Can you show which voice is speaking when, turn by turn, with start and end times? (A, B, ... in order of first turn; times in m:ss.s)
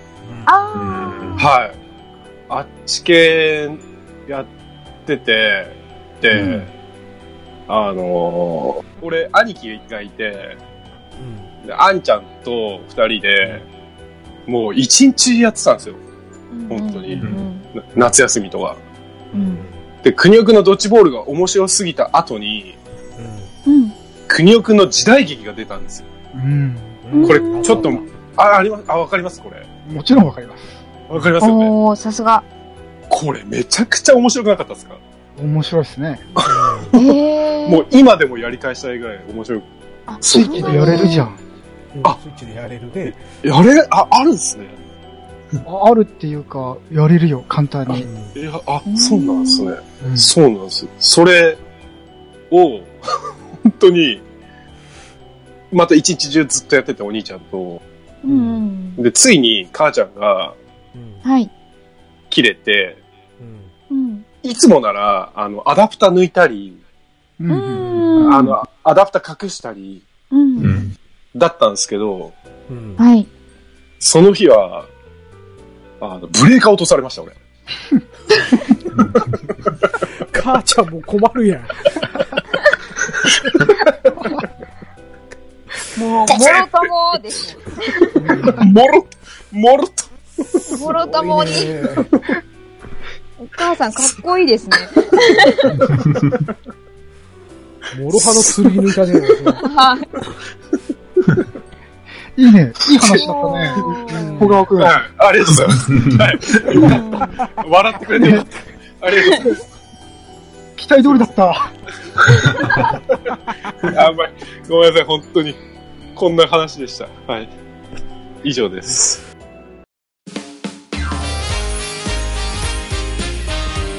0:00.5-0:01.5 A
0:00.8-0:01.3 B
0:01.4-0:01.8 C
0:02.5-0:04.5 C
0:05.0-0:06.7 C
0:06.3-0:06.7 D
0:07.7-0:10.6 C
0:11.2-0:11.5 D
0:11.6-0:13.6 C
0:14.5-0:16.0 C
0:16.5-0:17.6 A
0:16.7-0:18.8 C
0:19.3-0:19.8 D
0:19.3-0:19.6 A
0:20.0-0:22.8 C
0:23.2-0:23.5 D
0:23.6-0:23.9 A
0:24.3-0:26.1 C
0:26.3-0:27.0 E
0:27.0-0:28.0 D
0:27.1-0:28.0 A
0:27.2-0:29.7 C
0:29.8-0:30.8 E
0:31.1-0:31.7 C
0:31.4-0:32.4 A
0:33.1-0:35.0 C
0:35.4-0:36.2 E
0:36.3-0:39.7 C
0:36.4-0:36.9 D
0:36.9-0:37.8 A
0:40.1-0:41.3 A
0:40.2-0:41.2 C
0:40.3-0:41.4 E
0:41.9-0:43.2 D
0:43.4-0:44.8 C
0:45.6-0:48.1 E
0:48.0-0:48.4 D
0:48.0-0:51.6 C
0:48.9-0:49.7 A
0:50.0-0:50.3 E
0:52.5-0:52.9 C
0:53.6-0:54.2 C
0:55.7-0:57.8 C
0:58.2-0:59.0 A
0:58.3-0:58.6 D
0:59.0-1:00.6 C
1:00.9-1:01.2 D
1:01.2-1:01.5 A
1:02.3-1:03.0 C
1:03.4-1:03.7 D
1:03.9-1:04.2 A
1:04.4-1:06.8 C
1:07.4-1:08.1 E
1:07.5-1:08.5 A
1:08.2-1:10.0 C
1:10.3-1:10.7 A
1:10.6-1:10.9 B
1:11.3-1:12.3 C
1:12.7-1:13.0 D
1:13.0-1:13.3 A
1:14.0-1:14.9 C
1:16.0-1:17.4 C
1:20.2-1:22.1 D
1:25.9-1:28.1 A
1:26.3-1:26.8 C
1:28.1-1:28.7 D
1:28.4-1:30.8 C
1:30.7-1:31.7 A
1:30.7-1:32.1 D
1:33.4-1:35.8 A
1:37.9-1:39.6 D
1:38.1-1:38.7 C
1:39.6-1:40.1 A
1:42.4-1:44.9 E
1:43.1-1:44.6 A
1:44.1-1:44.6 D
1:44.8-1:48.5 C
1:45.7-1:46.9 B
1:46.8-1:47.3 A
1:48.2-1:48.4 E
1:49.0-1:49.5 C
1:50.8-1:51.7 E
1:53.9-1:55.6 C
1:56.1-1:57.5 C
1:58.4-1:59.2 C